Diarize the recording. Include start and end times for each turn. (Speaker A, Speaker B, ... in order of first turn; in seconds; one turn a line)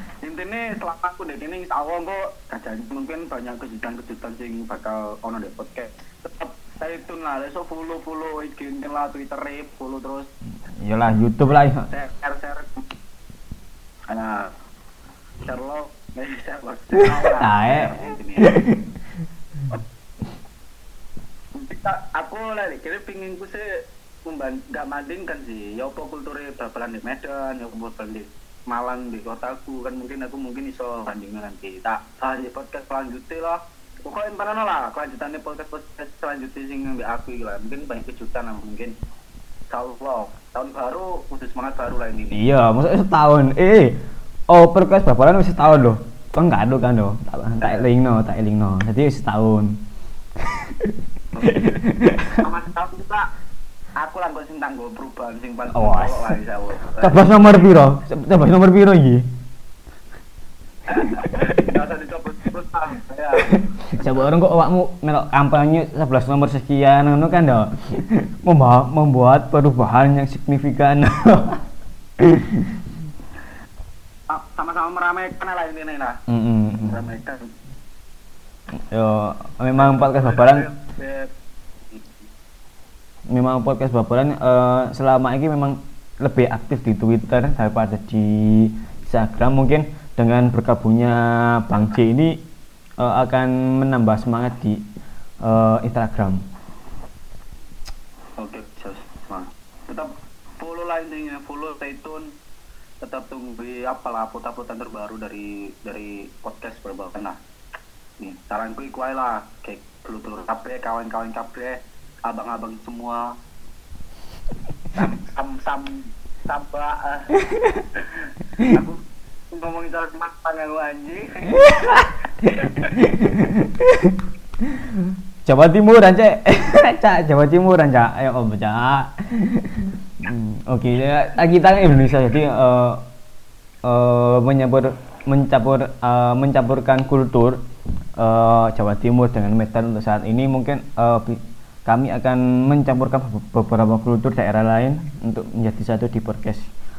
Speaker A: 0.2-10.3
Speaker B: 10.8-11.9
Speaker A: 11.9-12.8
Speaker A: 14.1-14.5
Speaker A: 15.5-18.5
Speaker B: 17.0-18.8
Speaker A: 21.6-23.7
Speaker A: 24.2-38.9
Speaker A: 39.7-42.4
Speaker B: 42.3-44.0
Speaker B: 44.5-49.7
Speaker A: 47.6-47.9
Speaker B: 50.4-52.4
Speaker A: 51.4-51.6
Speaker A: 52.4-53.3
Speaker A: 54.0-57.8
Speaker B: 55.7-56.4
Speaker B: 57.0-59.3
Speaker A: 60.9-64.2
Speaker B: 61.0-61.6
Speaker B: 63.4-71.6
Speaker B: 72.2-72.8
Speaker A: 74.3-76.2
Speaker B: 76.3-77.1
Speaker A: 76.8-77.5
Speaker B: 78.9-80.7
Speaker A: 79.8-81.3
Speaker A: 81.9-82.2
Speaker B: 83.3-92.4
Speaker B: 93.0-94.8
Speaker B: 95.4-96.4
Speaker A: 98.4-102.3
Speaker A: 103.0-107.4
Speaker A: 108.2-113.3
Speaker A: 115.0-117.4
Speaker B: 117.5-117.8
Speaker A: 118.0-119.0
Speaker A: 119.5-122.0
Speaker B: 121.5-133.1
Speaker A: 122.6-122.9
Speaker B: 133.8-137.6
Speaker B: 138.2-146.7